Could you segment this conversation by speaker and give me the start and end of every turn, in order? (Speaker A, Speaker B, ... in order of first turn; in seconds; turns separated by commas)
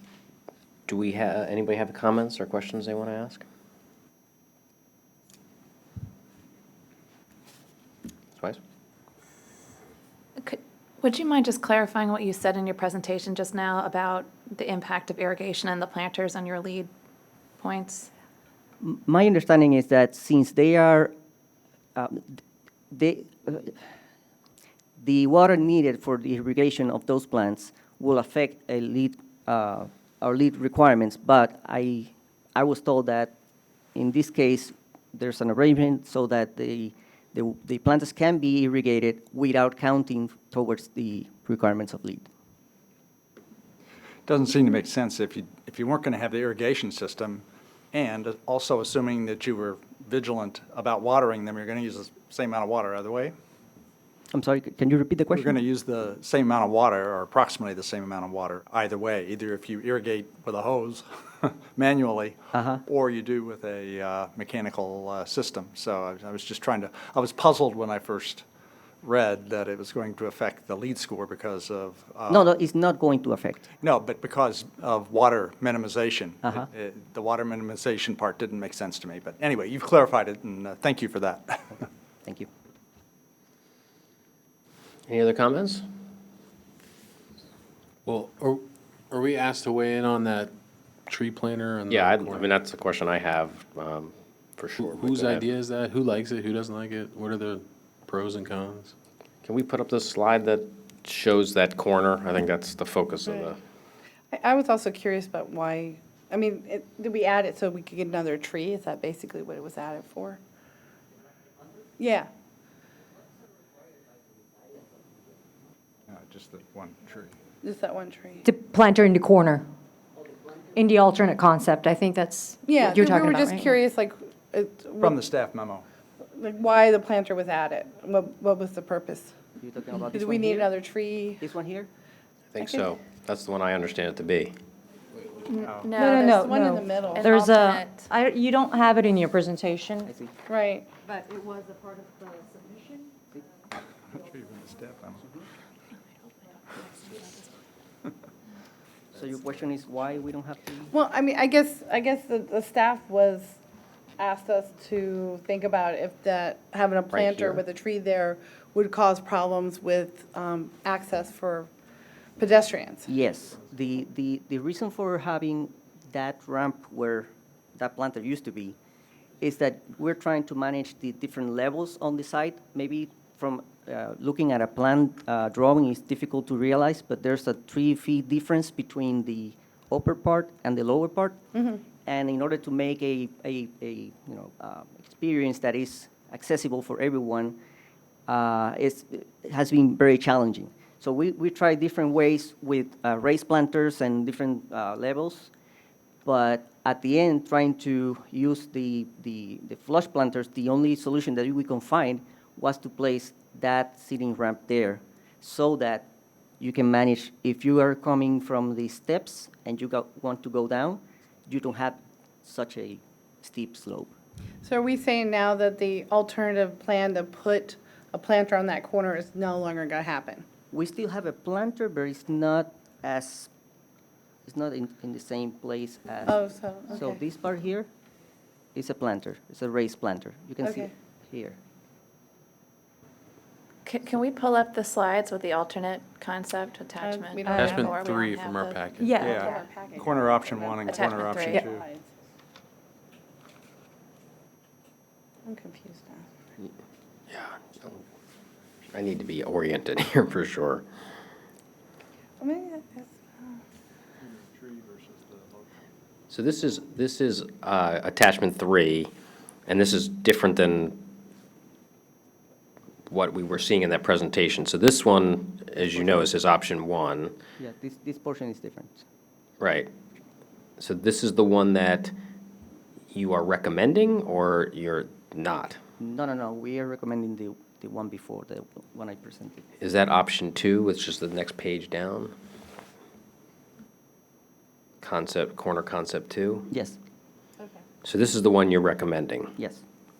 Speaker A: 0.9-3.4, Speaker B: 10.4-16.9, Speaker B: 17.6-18.1, Speaker C: 18.8-21.1, Speaker C: 21.9-22.4, Speaker C: 22.9-23.8, Speaker C: 25.0-33.3, Speaker C: 34.0-42.3, Speaker D: 44.3-53.3, Speaker C: 54.3-55.5, Speaker D: 55.3-68.4, Speaker C: 62.5-62.8, Speaker D: 69.0-72.5, Speaker C: 72.3-73.7, Speaker D: 73.8-81.8, Speaker C: 82.2-82.5, Speaker A: 85.1-85.8, Speaker E: 88.1-90.5, Speaker E: 91.1-92.5, Speaker A: 91.9-95.5, Speaker E: 94.8-98.9, Speaker A: 99.4-103.6, Speaker F: 104.3-110.4, Speaker F: 112.0-112.3, Speaker D: 116.1-117.3, Speaker F: 117.6-118.5, Speaker G: 118.5-119.7, Speaker G: 120.8-123.8, Speaker F: 122.6-125.2, Speaker D: 125.0-125.9, Speaker F: 126.4-129.3, Speaker C: 129.6-130.7, Speaker F: 130.1-131.4, Speaker C: 131.4-131.9, Speaker A: 132.5-134.5, Speaker B: 135.5-136.5, Speaker D: 135.7-135.9, Speaker F: 136.0-137.3, Speaker G: 136.0-140.1, Speaker B: 137.2-138.1, Speaker C: 140.1-140.3, Speaker F: 140.5-140.9, Speaker D: 144.1-145.2, Speaker B: 146.5-147.4, Speaker C: 149.1-150.9, Speaker F: 150.9-153.6, Speaker F: 154.2-161.7, Speaker A: 157.1-157.6, Speaker F: 162.4-163.1, Speaker C: 163.1-168.8, Speaker C: 169.4-181.4, Speaker C: 182.1-187.6, Speaker C: 188.3-195.5, Speaker C: 196.2-206.1, Speaker C: 206.6-214.2, Speaker F: 214.6-220.5, Speaker C: 220.7-223.5, Speaker C: 224.5-227.9, Speaker F: 226.3-227.2, Speaker C: 228.8-231.6, Speaker F: 230.6-230.9, Speaker B: 233.9-238.7, Speaker F: 237.0-242.1, Speaker E: 237.5-239.2, Speaker G: 239.0-239.3, Speaker D: 239.1-241.8, Speaker B: 240.9-241.7, Speaker F: 245.5-246.2, Speaker A: 247.3-248.0, Speaker A: 248.9-250.8, Speaker F: 252.4-253.6, Speaker D: 254.3-255.6, Speaker A: 256.3-259.1, Speaker A: 259.7-261.1, Speaker A: 263.1-267.4, Speaker C: 265.8-266.3, Speaker C: 267.6-269.1, Speaker A: 269.6-269.9, Speaker A: 270.8-272.1, Speaker A: 273.1-275.8, Speaker C: 276.0-279.7, Speaker A: 279.8-282.3, Speaker A: 285.0-286.7, Speaker C: 286.7-287.0, Speaker A: 288.0-289.5, Speaker C: 289.6-289.8